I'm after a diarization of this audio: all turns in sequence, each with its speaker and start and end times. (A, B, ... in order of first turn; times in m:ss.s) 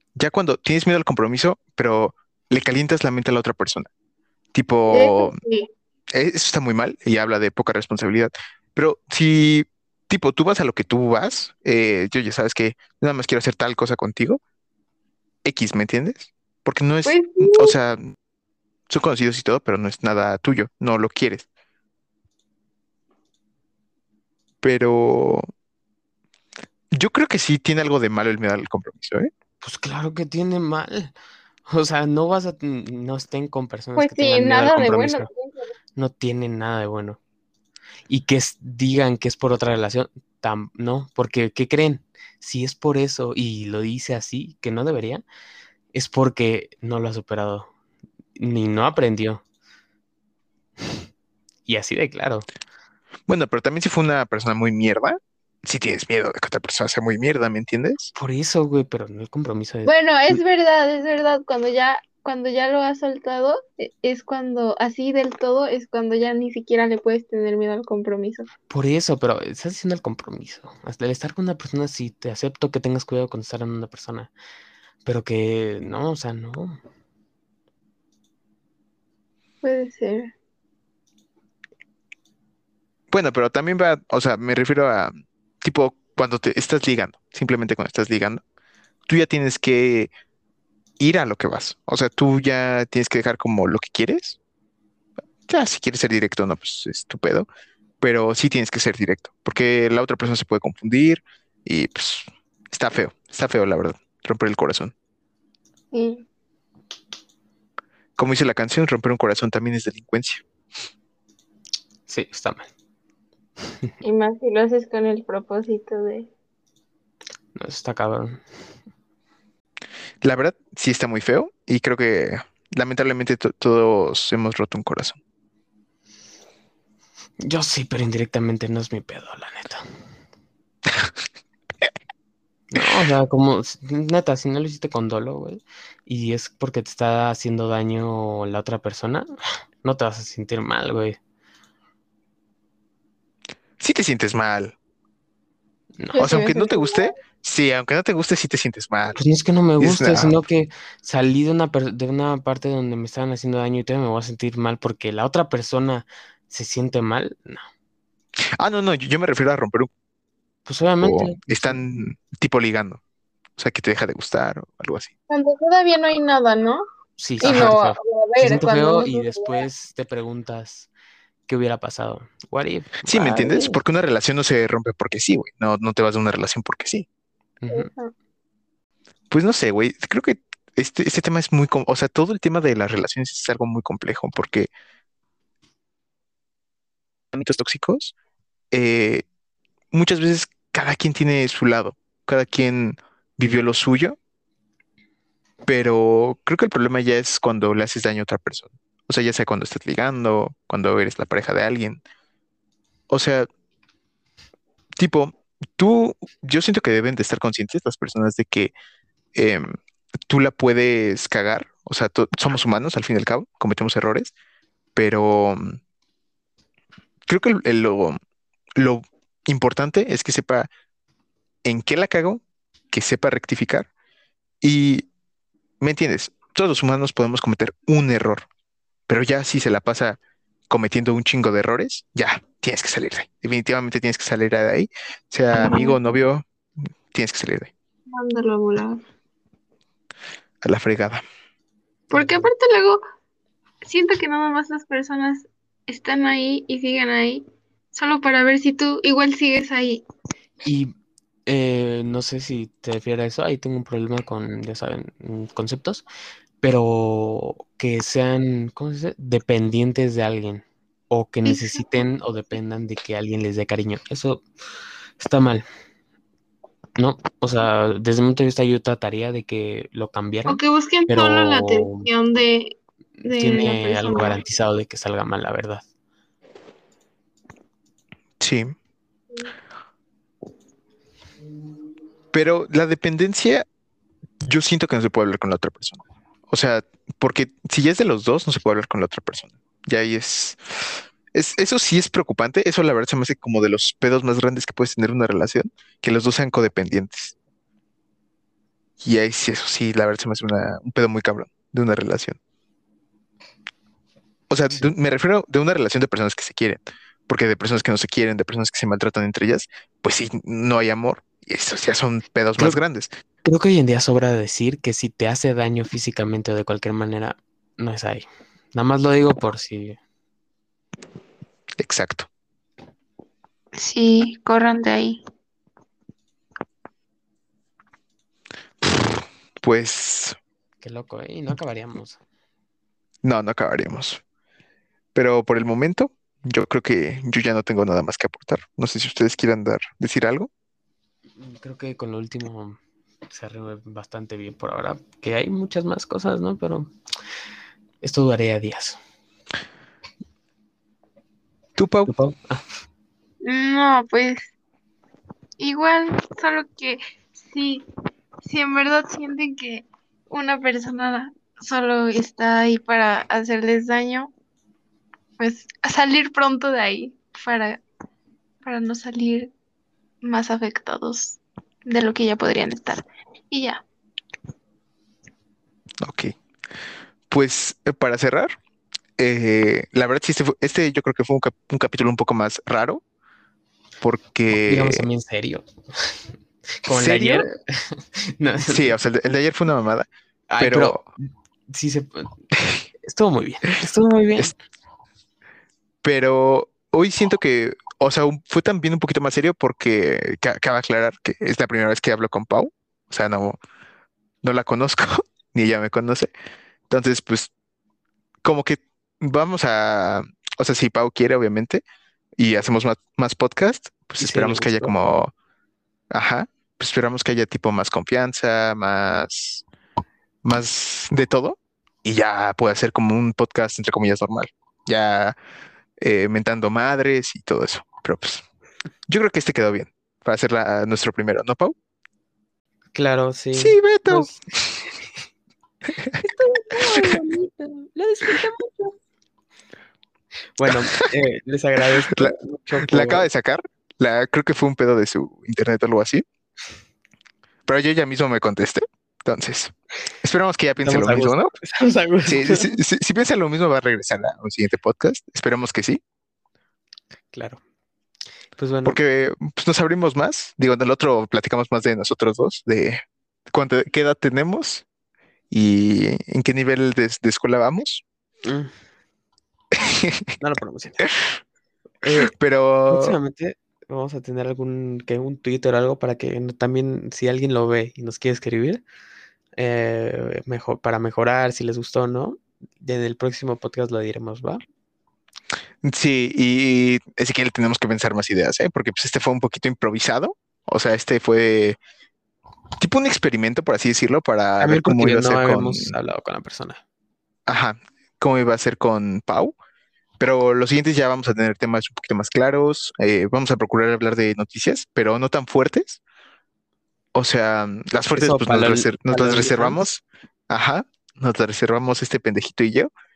0:00.2-0:03.9 A
0:04.5-0:05.4 A
0:04.9-0:05.7 B
0:06.1-0:14.4 A
0:15.4-0:18.1 A
0:17.0-0:17.7 B
0:18.9-0:21.5 A
0:24.6-0:25.5 A
0:26.9-0:29.3 A
0:29.6-0:31.1 C
0:31.7-0:35.3 C
0:34.0-0:35.7 B
0:36.0-0:37.2 C
0:38.1-0:45.2 C
0:45.9-0:47.7 C
0:48.4-0:49.4 C
0:51.6-0:52.4 C
0:53.3-0:58.1 A
0:58.2-0:59.9 C
0:59.8-1:08.5 B
1:08.7-1:14.3 C
1:15.0-1:16.8 C
1:19.6-1:20.3 B
1:23.1-1:28.4 A
1:29.1-1:30.1 A
1:31.0-1:34.4 A
1:35.5-1:37.5 A
1:38.0-1:44.9 A
1:45.9-1:46.2 B
1:48.2-1:50.4 A
1:52.1-1:52.7 C
1:54.0-1:56.3 B
1:57.5-1:58.4 C
2:00.2-2:05.2 A
2:07.4-2:09.8 C
2:12.7-2:19.3 C
2:19.8-2:21.2 C
2:23.8-2:24.7 A
2:26.0-2:26.2 C
2:26.1-2:27.1 B
2:26.2-2:29.2 A
2:29.2-2:37.6 C
2:29.8-2:30.4 A
2:38.6-2:39.9 A
2:40.6-2:41.7 C
2:41.0-2:43.0 A
2:43.6-2:45.1 A
2:45.3-2:46.8 B
2:47.2-2:50.9 C
2:47.4-2:49.6 B
2:47.4-2:47.7 A
2:51.5-2:53.8 C
2:53.1-2:57.0 A
2:57.6-2:57.9 C
2:57.7-2:58.1 B
2:59.3-3:04.7 A
3:07.3-3:08.1 A
3:08.7-3:09.2 A
3:09.9-3:14.2 A
3:15.6-3:22.0 A
3:23.1-3:23.5 A
3:25.0-3:28.7 A
3:29.3-3:29.8 A
3:30.3-3:34.3 A
3:35.0-3:35.8 A
3:37.3-3:38.2 A
3:38.8-3:40.7 A
3:41.6-3:43.9 A
3:44.6-3:45.1 A
3:45.8-3:48.4 A
3:49.1-3:56.4 A
3:55.5-3:56.0 B
3:57.1-3:57.7 A
3:58.1-3:59.0 B
4:00.6-4:01.2 A
4:02.1-4:02.5 C
4:02.1-4:03.0 B
4:03.8-4:10.0 B
4:10.6-4:10.9 C
4:11.4-4:16.0 C
4:16.6-4:24.4 C
4:21.4-4:21.8 B
4:25.2-4:25.6 C
4:27.0-4:32.1 C
4:30.5-4:34.4 B
4:33.3-4:35.8 C
4:38.4-4:38.7 A
4:42.3-4:43.6 A
4:44.4-4:57.3 A
4:59.0-5:02.4 A
5:04.5-5:13.1 A
5:13.4-5:20.0 C
5:21.8-5:22.3 A
5:23.7-5:25.2 B
5:28.8-5:30.4 A
5:30.8-5:32.2 C
5:33.2-5:34.2 A
5:35.1-5:40.5 A
5:41.4-5:42.8 C
5:43.3-5:46.9 C
5:48.0-5:49.0 C
5:51.8-5:52.1 A
5:52.0-5:52.6 C
5:53.4-5:54.5 B
5:55.6-5:57.8 B
5:58.4-6:04.3 B
6:05.4-6:07.8 B
6:08.6-6:09.5 B
6:10.2-6:13.8 B
6:16.0-6:16.3 A
6:17.3-6:18.6 A
6:19.2-6:23.0 A
6:24.0-6:25.0 A
6:24.7-6:26.3 C
6:26.8-6:29.0 C
6:26.9-6:27.4 A
6:28.7-6:30.1 A
6:30.5-6:32.3 C
6:30.6-6:31.0 A
6:33.0-6:34.5 C
6:36.0-6:43.6 A
6:44.4-6:46.3 A
6:46.9-6:47.5 A
6:48.4-6:51.8 A
6:52.4-6:55.3 A
6:54.2-6:55.1 C
6:56.1-6:59.6 A
7:00.4-7:05.4 A
7:06.0-7:08.4 A
7:09.1-7:11.7 A
7:12.9-7:14.4 C
7:13.5-7:14.8 A
7:16.2-7:18.9 C
7:16.8-7:17.2 A
7:20.6-7:23.3 C
7:22.1-7:26.2 A
7:27.7-7:31.5 A
7:30.8-7:32.7 C
7:32.3-7:36.0 A
7:37.3-7:37.6 C
7:38.6-7:39.0 C
7:38.8-7:43.0 A
7:43.5-7:44.8 A
7:45.5-7:48.0 A
7:48.4-7:48.7 C
7:49.8-7:50.2 A
7:50.4-7:51.1 C
7:52.0-7:52.3 C
7:52.2-7:53.2 A
7:52.9-7:58.8 C
7:59.6-8:04.6 C
8:05.8-8:11.8 A
8:12.8-8:16.0 A
8:14.6-8:16.8 C
8:17.5-8:19.5 A
8:20.2-8:26.0 A
8:27.1-8:32.9 A
8:28.1-8:29.8 C